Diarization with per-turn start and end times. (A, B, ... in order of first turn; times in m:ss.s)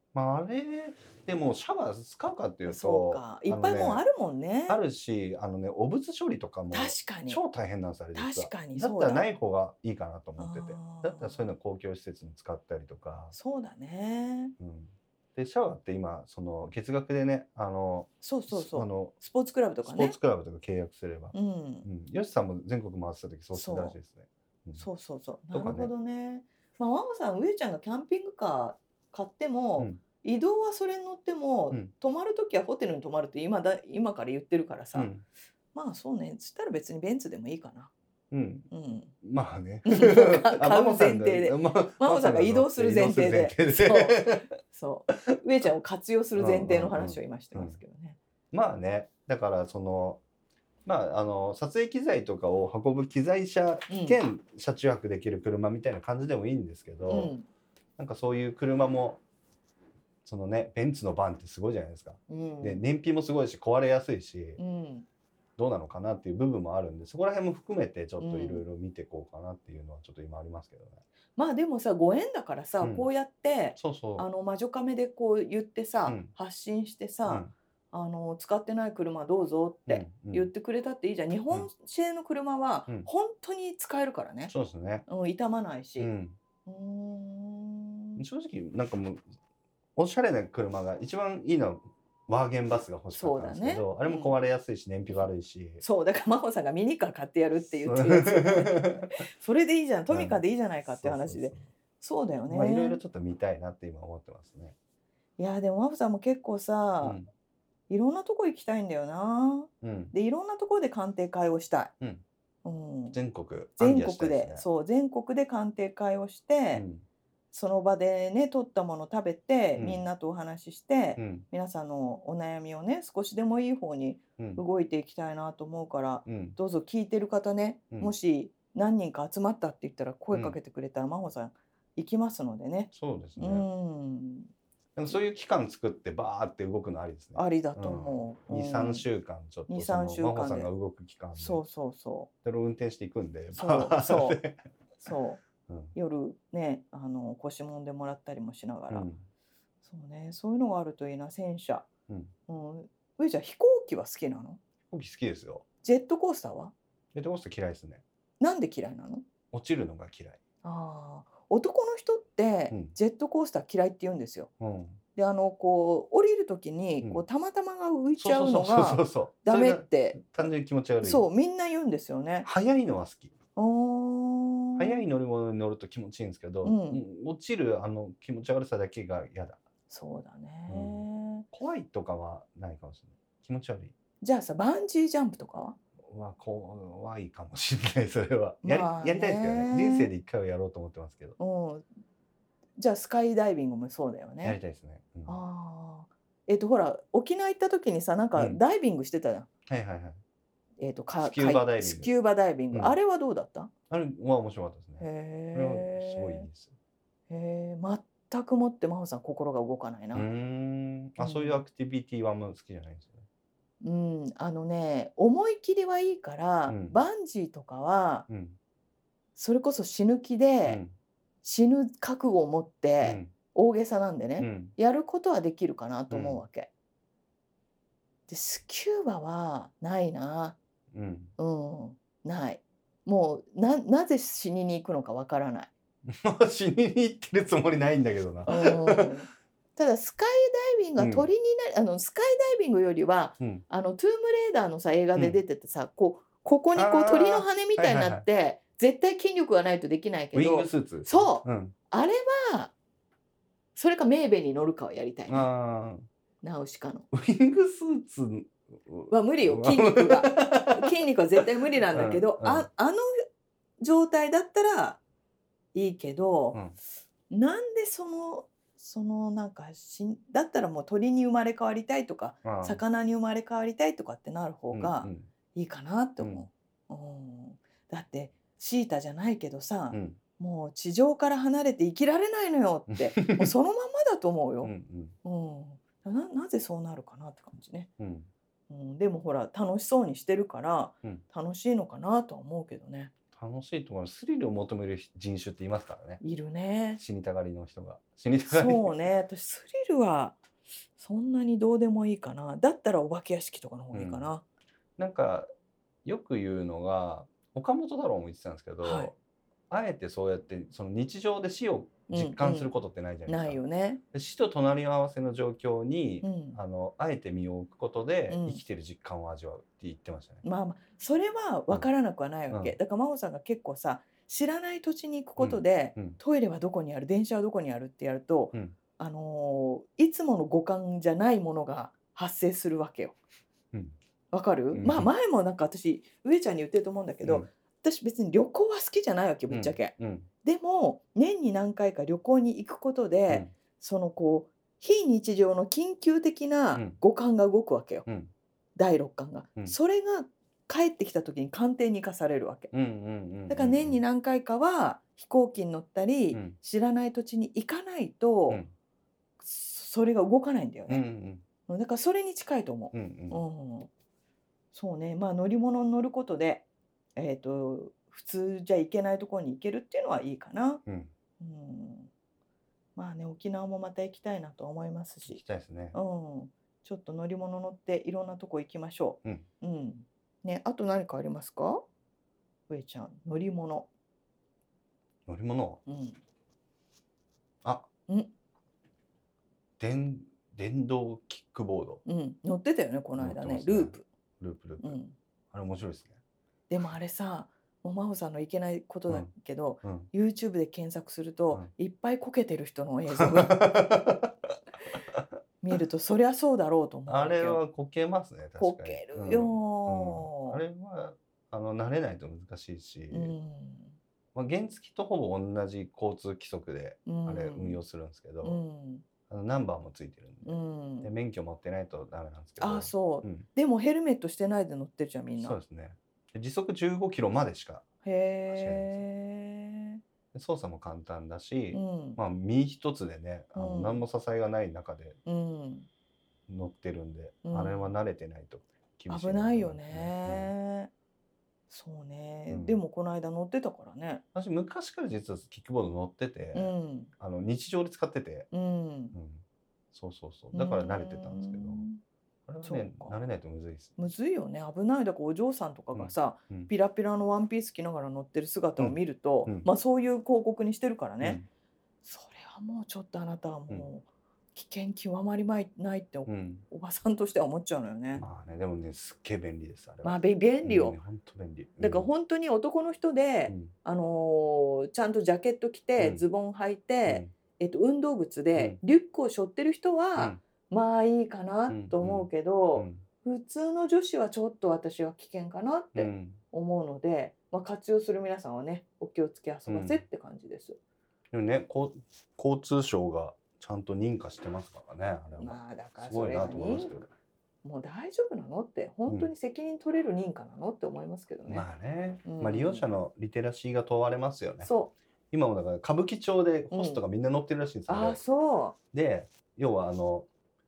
0:00.1-0:04.0 A
0:02.6-0:04.8 B
0:04.7-0:13.3 A
0:06.7-0:07.4 B
0:08.1-0:09.3 B
0:10.4-0:11.5 B
0:13.3-0:14.5 B
0:14.6-0:19.1 A
0:18.2-0:20.2 B
0:19.8-0:24.9 A
0:21.3-0:21.8 B
0:23.5-0:24.0 B
0:24.8-0:35.1 B
0:25.5-0:25.9 A
0:34.9-0:35.2 A
0:35.7-0:37.9 B
0:38.3-0:38.7 A
0:38.7-0:39.1 B
0:39.2-0:44.5 A
0:39.8-0:48.2 B
0:46.4-0:47.8 A
0:48.5-0:50.2 A
0:50.8-0:57.3 A
0:53.9-0:54.2 B
0:57.1-0:57.4 B
0:58.0-0:59.2 A
1:00.2-1:04.6 A
1:02.3-1:02.8 B
1:04.6-1:05.0 B
1:05.6-1:11.0 A
1:08.2-1:08.6 B
1:11.4-1:24.5 B
1:12.8-1:13.1 A
1:13.8-1:14.2 A
1:16.0-1:16.3 A
1:17.2-1:17.5 A
1:19.9-1:20.5 A
1:24.5-1:25.0 A
1:25.1-1:26.1 B
1:26.0-1:26.4 A
1:26.6-1:28.2 B
1:28.2-1:29.2 A
1:30.0-1:35.8 A
1:33.1-1:34.4 B
1:35.8-1:43.0 B
1:37.8-1:39.1 A
1:40.1-1:41.7 A
1:42.5-1:44.8 A
1:45.4-1:47.2 B
1:47.0-1:47.3 A
1:47.9-1:51.9 B
1:49.8-1:50.1 A
1:52.6-1:53.2 B
1:53.1-1:54.6 A
1:53.8-1:56.8 B
1:56.7-1:57.0 A
1:57.5-2:14.5 B
1:59.8-2:00.0 A
2:01.2-2:01.4 A
2:06.2-2:06.6 A
2:10.3-2:10.6 A
2:12.9-2:13.7 A
2:15.0-2:21.7 A
2:17.3-2:19.0 B
2:19.7-2:20.7 B
2:21.3-2:22.3 B
2:22.4-2:24.6 A
2:23.5-2:24.4 B
2:25.0-2:25.4 B
2:25.7-2:25.9 A
2:25.9-2:29.1 B
2:28.9-2:29.2 A
2:29.8-2:31.9 B
2:32.5-2:34.6 B
2:34.9-2:35.6 A
2:35.8-2:36.7 B
2:37.1-2:38.0 A
2:38.4-2:39.2 B
2:39.5-2:40.4 A
2:40.6-2:44.5 B
2:44.6-2:45.0 A
2:45.1-2:50.2 B
2:48.2-2:51.2 A
2:51.0-2:52.5 B
2:52.4-2:53.3 A
2:53.6-2:55.0 B
2:54.8-2:59.6 A
2:56.6-2:57.0 B
2:59.9-3:01.4 B
3:00.7-3:03.9 A
3:04.2-3:05.8 B
3:06.0-3:11.4 A
3:08.6-3:10.1 B
3:11.4-3:11.8 B
3:12.8-3:14.6 B
3:14.4-3:15.4 A
3:15.2-3:19.5 B
3:19.7-3:20.2 A
3:20.8-3:23.7 B
3:21.2-3:22.1 A
3:23.9-3:26.7 A
3:25.0-3:26.5 B
3:27.3-3:30.3 B
3:30.1-3:33.3 A
3:31.2-3:31.6 B
3:33.8-3:38.3 B
3:36.7-3:37.0 A
3:38.3-3:38.6 A
3:39.4-3:40.8 B
3:40.6-3:40.9 A
3:41.4-3:46.7 B
3:43.0-3:43.3 A
3:44.4-3:44.7 A
3:46.1-3:46.4 A
3:48.3-3:50.6 B
3:50.9-3:51.3 A
3:51.4-3:55.7 B
3:56.0-3:59.2 A
3:58.5-4:12.7 B
4:01.0-4:01.3 A
4:05.1-4:05.4 A
4:06.7-4:08.2 A
4:10.3-4:11.7 A
4:13.7-4:15.5 B
4:15.3-4:16.1 A
4:16.4-4:17.1 B
4:17.1-4:20.9 A
4:19.1-4:23.1 B
4:21.9-4:22.7 A
4:23.8-4:25.0 B
4:25.7-4:26.6 B
4:27.3-4:47.9 B
4:32.4-4:32.8 A
4:34.7-4:35.3 A
4:36.2-4:36.4 A
4:39.9-4:40.2 A
4:42.9-4:43.5 A
4:44.6-4:45.1 A
4:48.0-4:48.3 A
4:48.7-4:53.1 B
4:53.3-4:56.2 A
4:56.2-4:57.0 B
4:57.0-4:58.9 A
4:58.5-5:00.4 B
5:01.0-5:04.4 B
5:03.9-5:04.3 A
5:05.0-5:05.5 A
5:06.0-5:09.1 A
5:08.8-5:09.1 B
5:09.7-5:13.6 A
5:12.1-5:12.7 B
5:13.3-5:14.0 B
5:14.1-5:20.4 A
5:16.2-5:16.6 B
5:18.3-5:18.6 B
5:20.4-5:33.2 B
5:25.4-5:26.2 A
5:34.3-5:48.0 B
5:34.7-5:35.1 A
5:39.5-5:40.3 A
5:48.0-5:48.3 A
5:48.8-5:52.7 B
5:52.7-5:54.0 A
5:53.5-5:58.6 B
5:59.4-6:01.0 B
6:00.9-6:01.4 A
6:01.7-6:03.9 B
6:02.9-6:03.4 A
6:04.7-6:10.8 B
6:10.8-6:11.1 A
6:11.4-6:12.1 B
6:13.0-6:15.4 B
6:15.3-6:16.0 A
6:15.9-6:21.8 B
6:22.7-6:23.9 B
6:25.2-6:25.8 A
6:25.8-6:26.2 B
6:29.8-6:32.0 A
6:32.0-6:34.0 B
6:33.2-6:35.0 A
6:34.8-6:35.1 B
6:35.5-6:36.2 A
6:36.7-6:43.8 B
6:39.8-6:40.1 A
6:43.2-6:44.3 A
6:45.6-6:47.6 B
6:47.1-6:53.3 A
6:48.6-6:50.6 B
6:53.1-6:53.9 B
6:54.3-6:58.6 A
6:57.0-6:57.8 B
6:58.4-6:59.0 B
6:59.3-7:03.4 A
7:00.4-7:01.1 B
7:02.6-7:05.6 B
7:05.4-7:07.9 A
7:08.0-7:10.0 B
7:08.5-7:09.0 A
7:10.3-7:15.2 A
7:11.7-7:12.2 B
7:13.5-7:14.0 B
7:15.2-7:15.9 B
7:16.5-7:20.5 A
7:17.4-7:17.9 B
7:19.1-7:20.9 B
7:21.7-7:24.2 B
7:22.5-7:22.8 A
7:24.3-7:28.5 A
7:26.5-7:27.1 B
7:28.5-7:29.1 B
7:29.1-7:31.8 A
7:30.5-7:32.0 B
7:32.5-7:34.1 A
7:32.6-7:33.2 B
7:34.0-7:41.4 B
7:35.9-7:36.7 A
7:38.8-7:39.7 A
7:41.2-7:41.5 A
7:42.0-7:48.2 B
7:46.2-7:46.6 A
7:48.2-7:52.1 A
7:50.0-7:51.0 B
7:51.8-8:10.8 B
7:56.0-7:56.2 A
7:57.0-7:57.3 A
8:00.2-8:00.4 A
8:01.7-8:03.0 A
8:05.9-8:06.4 A
8:09.7-8:10.0 A
8:11.3-8:17.1 A
8:15.4-8:17.0 B
8:17.6-8:21.6 B
8:21.5-8:24.7 A
8:22.2-8:22.8 B
8:24.6-8:24.9 B
8:25.3-8:28.2 A
8:26.7-8:27.0 B
8:27.9-8:28.8 B
8:28.9-8:30.3 A